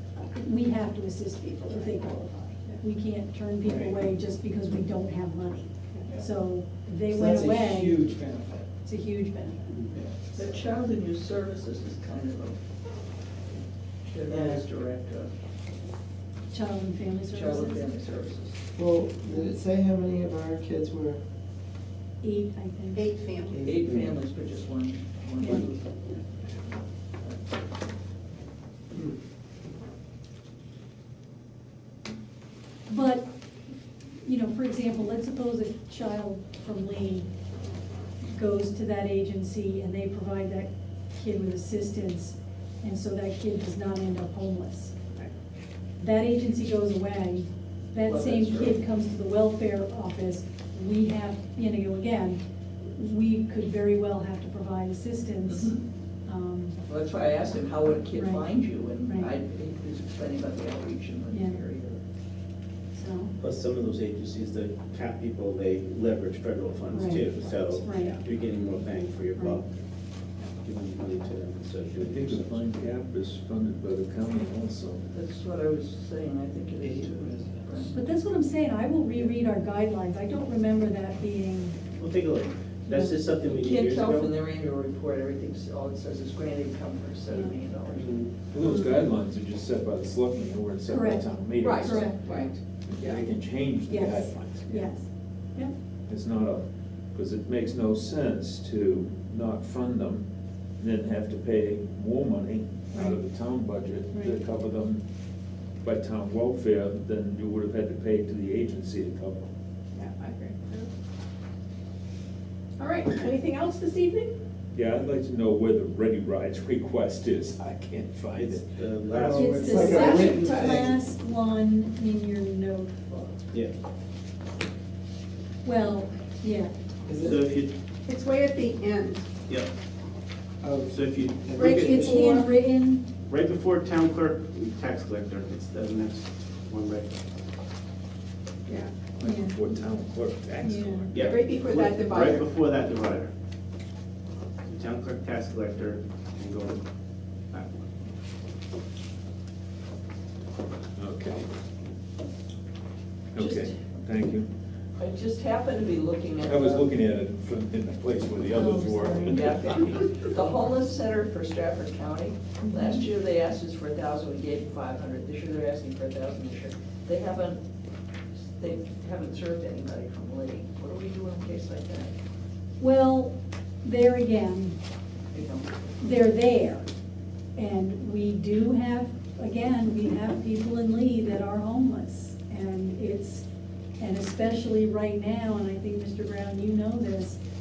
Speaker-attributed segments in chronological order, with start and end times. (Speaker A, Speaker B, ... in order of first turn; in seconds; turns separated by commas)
Speaker A: 0.3-2.3, Speaker B: 1.6-2.8, Speaker A: 2.8-8.1, Speaker C: 3.6-3.9, Speaker C: 7.1-8.7, Speaker A: 8.8-9.8, Speaker C: 9.8-10.4, Speaker D: 10.3-12.6, Speaker D: 14.1-15.3, Speaker C: 14.3-14.6, Speaker A: 16.5-17.9, Speaker D: 17.3-18.6, Speaker C: 18.7-21.2, Speaker A: 22.2-23.1, Speaker B: 22.9-23.7, Speaker C: 23.6-23.9, Speaker D: 23.6-26.0, Speaker A: 32.9-33.3, Speaker A: 34.2-37.2, Speaker A: 38.3-45.1, Speaker A: 46.0-56.8, Speaker D: 48.0-48.8, Speaker D: 56.9-62.0, Speaker A: 58.1-58.4, Speaker A: 59.0-59.3, Speaker A: 61.3-61.6, Speaker A: 62.9-63.3, Speaker E: 63.4-69.7, Speaker A: 66.9-68.2, Speaker B: 67.8-68.2, Speaker E: 70.5-72.6, Speaker F: 72.0-75.0, Speaker D: 75.1-78.0, Speaker C: 76.8-77.4, Speaker A: 77.9-81.8, Speaker E: 82.0-84.3, Speaker A: 82.9-83.2, Speaker D: 83.4-88.1, Speaker A: 87.3-87.5, Speaker E: 88.0-88.3, Speaker F: 88.5-94.8, Speaker A: 90.9-91.3, Speaker B: 91.6-93.2, Speaker A: 91.8-92.2, Speaker A: 93.9-95.1, Speaker F: 96.1-100.2, Speaker F: 100.8-105.0, Speaker F: 105.8-109.5, Speaker B: 109.9-110.9, Speaker B: 112.8-114.3, Speaker F: 114.7-118.6, Speaker E: 118.3-120.3, Speaker C: 119.1-120.9, Speaker A: 119.3-123.4, Speaker B: 119.7-120.9, Speaker A: 125.6-126.7, Speaker C: 127.1-127.4, Speaker E: 127.2-127.7, Speaker B: 128.1-129.2, Speaker C: 130.6-132.3, Speaker E: 130.9-132.1, Speaker B: 131.6-132.5, Speaker A: 131.6-133.1, Speaker E: 133.3-137.2, Speaker B: 138.7-138.9, Speaker F: 139.2-141.2, Speaker A: 139.2-139.6, Speaker A: 140.6-141.1, Speaker E: 141.1-143.3, Speaker B: 141.1-142.5, Speaker E: 144.7-146.8, Speaker E: 147.5-147.9, Speaker F: 151.0-151.5, Speaker F: 153.3-154.5, Speaker D: 153.3-153.8, Speaker D: 155.0-156.9, Speaker F: 156.4-159.3, Speaker A: 158.6-159.3, Speaker B: 158.8-159.3, Speaker D: 159.3-167.6, Speaker D: 168.6-172.1, Speaker A: 172.8-174.8, Speaker D: 175.3-175.7, Speaker A: 176.0-176.9, Speaker A: 177.6-183.4, Speaker A: 184.0-187.4